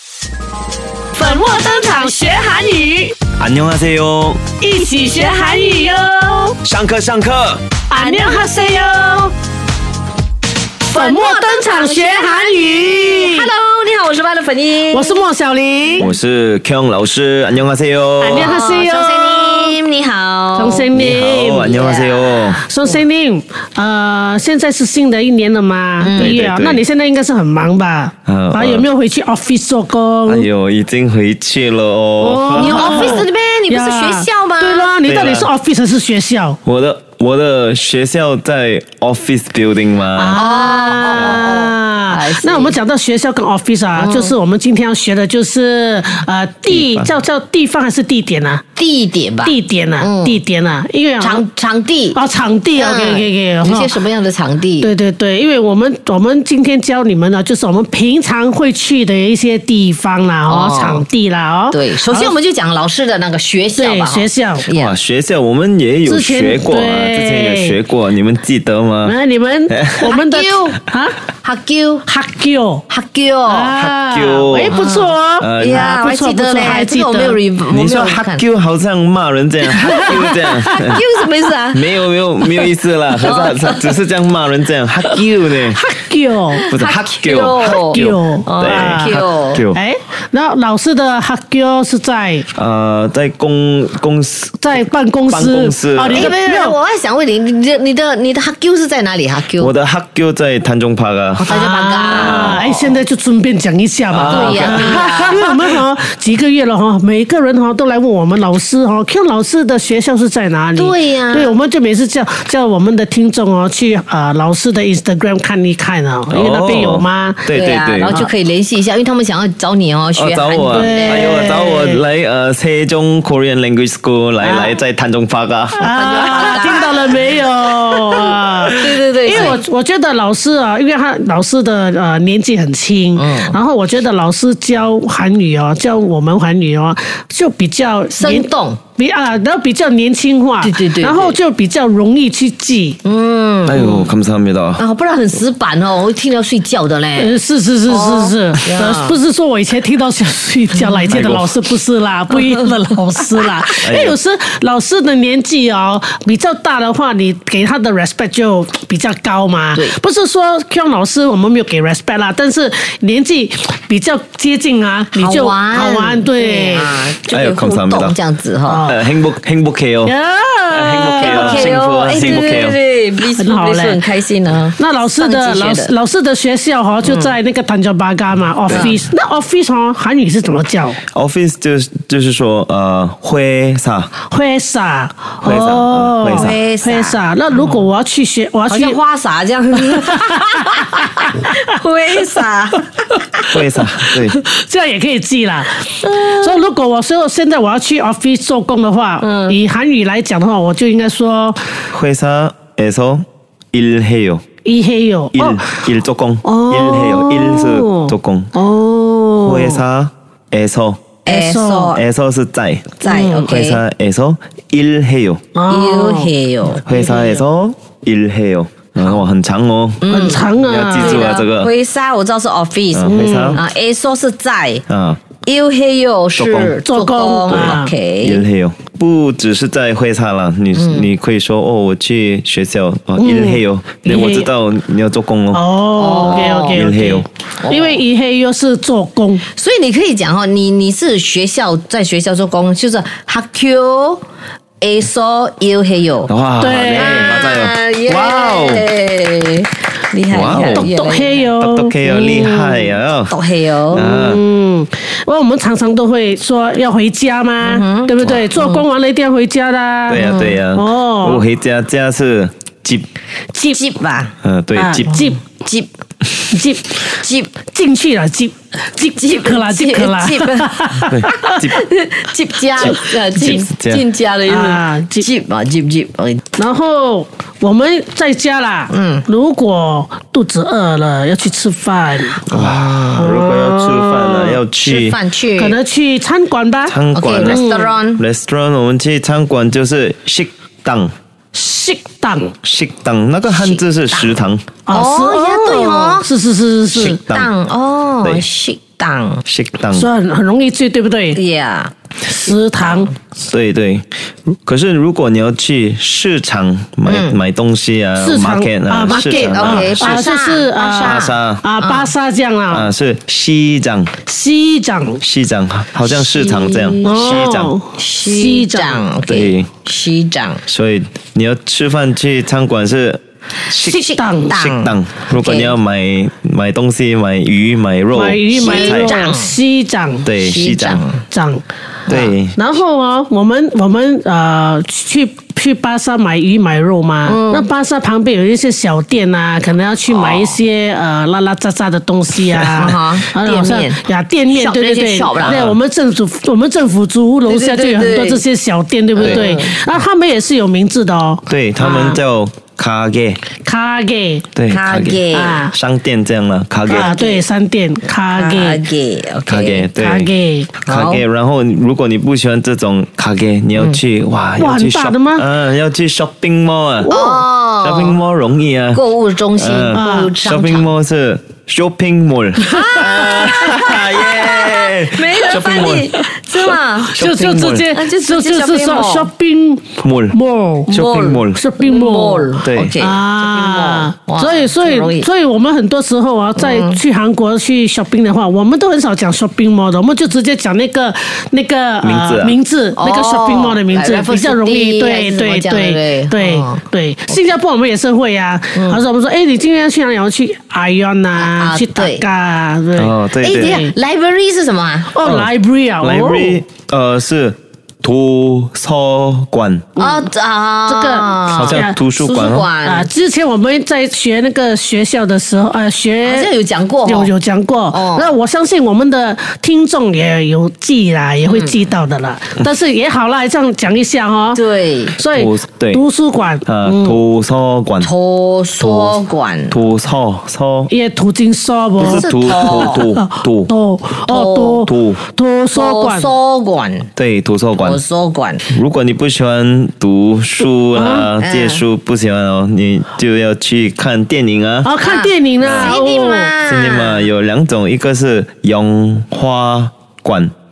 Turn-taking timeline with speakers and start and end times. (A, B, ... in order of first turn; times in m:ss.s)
0:01.1-0:03.2 A
0:03.4-0:04.4 B
0:04.6-0:06.6 A
0:04.8-0:06.0 C
0:06.6-0:07.6 B
0:07.9-0:09.3 A
0:08.0-0:08.8 C
0:10.9-0:15.3 C
0:10.9-0:13.5 A
0:14.9-0:16.1 A
0:16.0-0:18.6 B
0:18.2-0:19.8 A
0:18.3-0:20.9 C
0:20.5-0:21.7 A
0:20.9-0:22.6 B
0:21.6-0:23.0 C
0:22.6-0:30.5 A
0:26.0-0:26.4 C
0:26.1-0:26.8 B
0:28.2-0:28.9 B
0:30.3-0:33.2 B
0:32.2-0:36.6 A
0:32.5-0:34.9 C
0:35.0-0:35.5 B
0:36.6-0:40.4 B
0:40.2-0:48.6 A
0:40.3-0:42.8 C
0:41.0-0:41.4 B
0:44.0-0:44.3 C
0:46.7-0:47.1 B
0:48.8-0:50.4 C
0:49.4-0:51.4 A
0:51.2-0:52.2 C
0:52.2-0:53.9 A
0:52.7-0:54.9 C
0:54.8-1:02.4 A
1:00.5-1:01.0 C
1:01.7-1:05.0 C
1:03.8-1:04.7 A
1:04.7-1:09.2 B
1:06.1-1:07.8 A
1:09.0-1:11.2 A
1:09.7-1:10.1 B
1:10.0-1:10.8 C
1:11.4-1:12.0 C
1:12.1-1:12.8 A
1:12.9-1:13.8 C
1:13.5-1:17.4 A
1:13.8-1:14.8 B
1:14.7-1:18.4 C
1:15.4-1:15.9 B
1:17.7-1:21.0 B
1:19.8-1:21.8 C
1:20.0-1:20.3 A
1:21.7-1:25.9 B
1:23.2-1:24.0 C
1:25.7-1:26.7 A
1:26.6-1:29.6 C
1:26.7-1:29.8 B
1:27.6-1:29.2 A
1:29.7-1:32.5 A
1:32.6-1:34.6 B
1:34.6-1:36.8 A
1:35.3-1:36.3 B
1:36.1-1:39.7 C
1:39.6-1:41.6 B
1:41.4-1:43.0 C
1:41.4-1:57.5 A
1:42.1-1:42.6 B
1:44.1-1:45.5 B
1:44.3-1:45.6 C
1:50.8-1:51.6 C
1:56.3-1:58.3 B
1:57.5-2:01.4 C
2:00.2-2:06.8 B
2:00.7-2:02.0 A
2:04.4-2:04.8 A
2:05.8-2:23.0 A
2:05.8-2:07.4 C
2:08.1-2:09.6 C
2:13.2-2:13.6 C
2:18.2-2:18.8 C
2:20.6-2:21.4 C
2:23.0-2:24.1 C
2:23.7-2:24.8 B
2:24.8-2:29.2 C
2:27.2-2:47.1 A
2:31.1-2:31.5 B
2:33.8-2:34.2 B
2:45.1-2:48.9 C
2:47.3-2:48.2 B
2:48.7-2:49.0 A
2:48.9-2:50.1 B
2:50.0-2:52.6 A
2:50.7-2:52.8 B
2:51.2-2:55.9 C
2:53.2-2:54.0 A
2:54.8-3:01.0 A
2:58.7-2:59.0 B
2:58.7-2:59.0 C
3:01.1-3:04.1 B
3:04.3-3:09.0 A
3:05.4-3:06.6 B
3:06.3-3:07.9 C
3:08.7-3:13.5 C
3:09.8-3:10.4 A
3:13.5-3:14.4 B
3:14.3-3:21.6 A
3:16.0-3:16.7 C
3:19.2-3:19.6 C
3:21.9-3:24.4 B
3:24.6-3:25.7 A
3:25.3-3:28.5 B
3:26.4-3:29.8 A
3:29.4-3:31.1 B
3:31.2-3:32.0 C
3:31.3-3:32.0 A
3:31.9-3:35.4 B
3:33.0-3:33.8 C
3:33.1-3:33.5 A
3:35.5-3:36.3 A
3:35.7-3:36.8 C
3:36.8-3:41.7 B
3:39.0-3:39.3 C
3:40.0-3:44.8 C
3:40.1-3:41.3 A
3:42.9-3:43.6 B
3:43.1-3:43.6 A
3:44.9-3:45.2 B
3:45.4-3:48.4 C
3:46.4-3:46.8 B
3:46.8-3:47.9 A
3:47.5-3:57.3 B
3:50.7-3:51.1 C
3:53.2-3:54.5 A
3:55.5-3:59.4 A
3:55.9-3:56.8 C
3:57.6-3:58.0 C
3:59.5-4:04.2 C
4:04.8-4:06.3 C
4:06.3-4:08.9 B
4:06.6-4:07.4 A
4:06.9-4:11.4 C
4:10.3-4:10.9 B
4:10.5-4:13.0 A
4:11.6-4:13.3 B
4:13.3-4:14.2 C
4:13.9-4:14.4 B
4:13.9-4:21.4 A
4:17.6-4:18.9 C
4:20.1-4:23.1 B
4:20.1-4:20.6 C
4:23.5-4:23.8 A
4:23.7-4:24.4 C
4:24.4-4:25.3 B
4:24.8-4:25.4 A
4:25.2-4:25.9 C
4:26.5-4:27.1 A
4:27.2-4:27.6 C
4:27.6-4:31.2 A
4:29.2-4:36.4 C
4:31.0-4:31.9 B
4:32.8-4:34.0 B
4:32.8-4:33.5 A
4:34.5-4:35.3 A
4:36.6-4:42.6 A
4:38.9-4:39.2 C
4:42.5-4:45.2 B
4:42.5-4:43.3 C
4:43.2-4:44.5 A
4:44.6-4:45.8 C
4:45.6-4:47.9 A
4:46.9-4:47.6 B
4:47.1-4:48.2 C
4:48.2-4:51.1 B
4:51.5-4:52.6 A
4:52.6-4:54.7 B
4:53.5-4:56.3 C
4:54.9-4:57.1 A
4:56.9-4:59.4 C
4:56.9-4:57.5 B
4:59.5-5:00.1 B
4:59.9-5:01.4 A
5:01.3-5:01.9 C
5:02.2-5:03.1 A
5:03.4-5:04.0 B
5:04.7-5:10.2 B
5:07.1-5:07.4 C
5:08.2-5:12.9 A
5:09.1-5:12.1 C
5:11.0-5:11.6 B
5:12.7-5:14.1 B
5:14.3-5:15.2 A
5:15.2-5:17.8 B
5:16.0-5:20.6 C
5:17.0-5:19.1 A
5:19.3-5:19.7 B
5:20.7-5:29.2 B
5:23.8-5:24.5 A
5:23.9-5:25.8 C
5:28.1-5:30.3 A
5:28.5-5:29.6 C
5:30.2-5:31.0 B
5:30.4-5:31.2 C
5:31.3-5:31.6 A
5:32.1-5:32.4 C
5:32.1-5:32.6 B
5:32.6-5:52.2 A
5:37.2-5:37.7 C
5:42.5-5:42.9 B
5:42.8-5:45.6 C
5:45.4-5:45.8 B
5:47.5-5:48.4 C
5:49.2-5:49.8 C
5:49.2-5:49.5 B
5:51.5-5:53.4 B
5:53.6-5:54.5 A
5:54.6-5:57.1 B
5:54.7-5:55.7 C
5:55.3-5:55.7 A
5:56.9-5:58.8 A
5:56.9-5:57.4 C
5:58.3-5:59.9 C
5:59.5-6:07.1 B
6:00.0-6:00.7 A
6:00.9-6:01.2 C
6:04.6-6:05.4 A
6:07.0-6:07.5 A
6:07.1-6:08.2 C
6:07.8-6:09.0 B
6:08.9-6:10.9 C
6:09.6-6:16.2 B
6:09.9-6:10.3 A
6:12.6-6:17.2 C
6:17.1-6:21.0 A
6:17.2-6:17.9 B
6:17.9-6:19.3 C
6:20.0-6:21.6 B
6:20.9-6:25.3 C
6:21.5-6:43.9 A
6:22.6-6:23.0 B
6:26.6-6:27.0 C
6:32.0-6:32.6 B
6:32.9-6:37.5 C
6:38.8-6:39.0 C
6:41.3-6:42.2 C
6:43.0-6:43.8 B
6:43.4-6:45.2 C
6:45.1-6:46.6 A
6:45.2-6:45.5 B
6:46.0-6:49.9 B
6:50.0-6:50.2 A
6:50.0-6:53.1 C
6:50.9-6:52.0 A
6:51.5-6:52.7 B
6:52.8-6:56.5 A
6:56.2-6:57.3 C
6:57.0-7:04.6 A
6:57.9-6:58.3 C
7:01.4-7:01.9 C
7:04.5-7:05.2 C
7:05.2-7:07.2 A
7:05.3-7:06.0 B
7:06.6-7:08.1 B
7:08.0-7:09.8 C
7:08.8-7:09.2 B
7:09.7-7:10.9 B
7:10.9-7:16.4 A
7:12.0-7:13.7 B
7:12.0-7:13.0 C
7:14.2-7:14.8 C
7:14.8-7:15.2 B
7:15.7-7:17.1 C
7:17.2-7:18.0 B
7:17.8-7:18.6 C
7:18.7-7:24.9 B
7:21.0-7:21.3 A
7:21.4-7:21.8 C
7:24.8-7:26.5 A
7:25.0-7:27.3 C
7:25.6-7:26.0 B
7:26.7-7:30.5 B